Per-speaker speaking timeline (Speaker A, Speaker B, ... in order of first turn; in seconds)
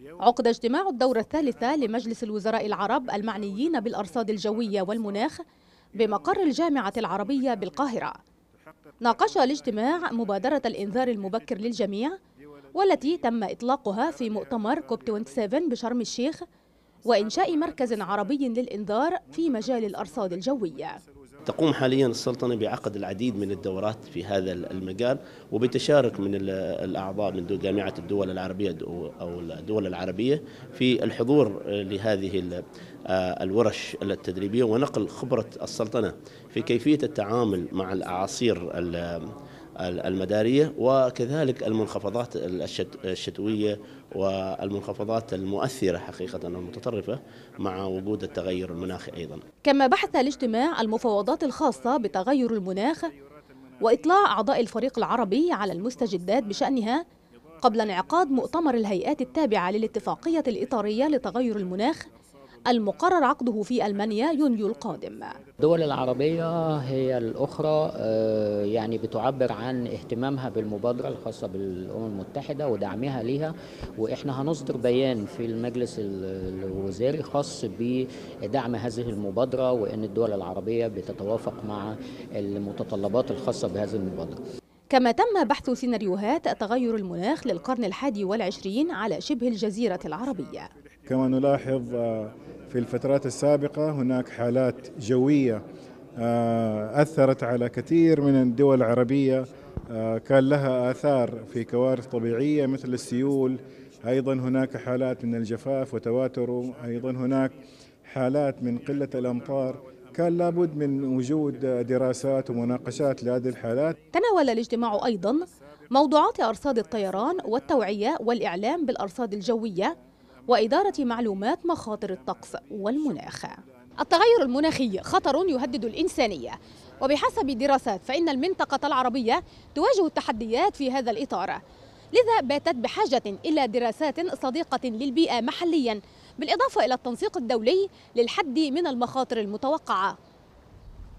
Speaker A: 0.2-5.4, 6.0-8.2, 9.0-12.2, 12.8-16.4, 17.1-21.0, 49.6-53.1, 53.8-57.0, 57.6-62.0, 62.7-65.3, 84.9-90.7, 114.1-120.0, 120.5-131.6, 132.1-140.1
Speaker B: 21.5-32.6, 33.1-39.2, 39.8-49.4
Speaker C: 65.6-84.4
Speaker D: 91.1-95.6, 96.2-114.0